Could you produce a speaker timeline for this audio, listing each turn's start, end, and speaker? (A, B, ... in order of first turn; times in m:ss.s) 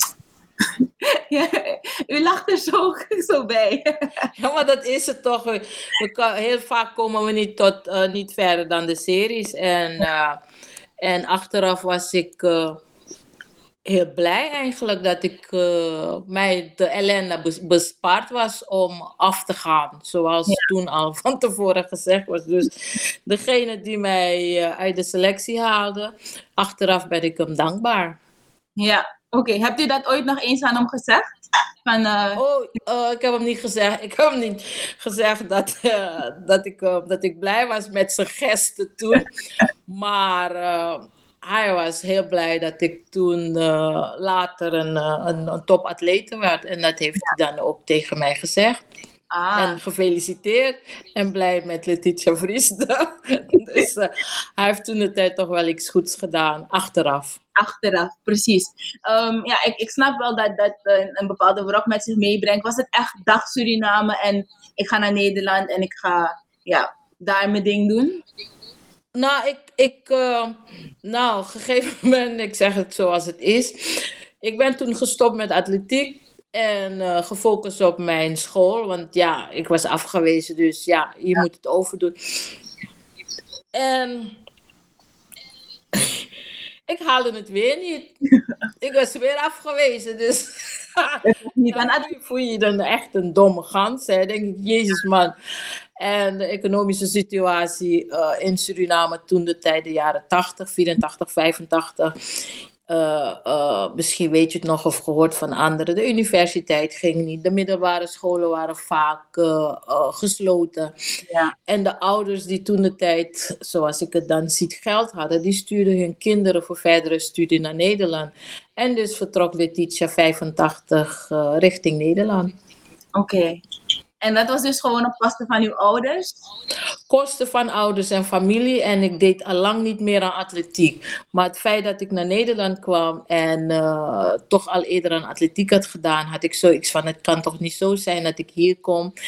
0:01.2-0:04.3 A
0:04.4-0:10.4 B
0:11.0-0:12.8 B
0:13.8-0:28.2 B
0:28.8-0:31.2 A
0:31.8-0:32.4 A
0:32.4-0:39.3 B
0:39.9-0:48.8 B
0:49.3-0:49.8 A
0:49.6-0:57.4 B
0:57.6-1:08.2 A
1:09.2-1:22.5 B
1:23.7-1:24.4 B
1:25.9-1:26.2 B
1:26.9-1:28.2 B
1:28.8-1:35.3 B
1:31.2-1:32.1 A
1:36.0-1:42.1 B
1:42.9-1:50.9 B
1:51.7-2:02.5 B
2:03.2-2:03.6 A
2:04.2-2:06.3 A
2:07.1-2:19.1 B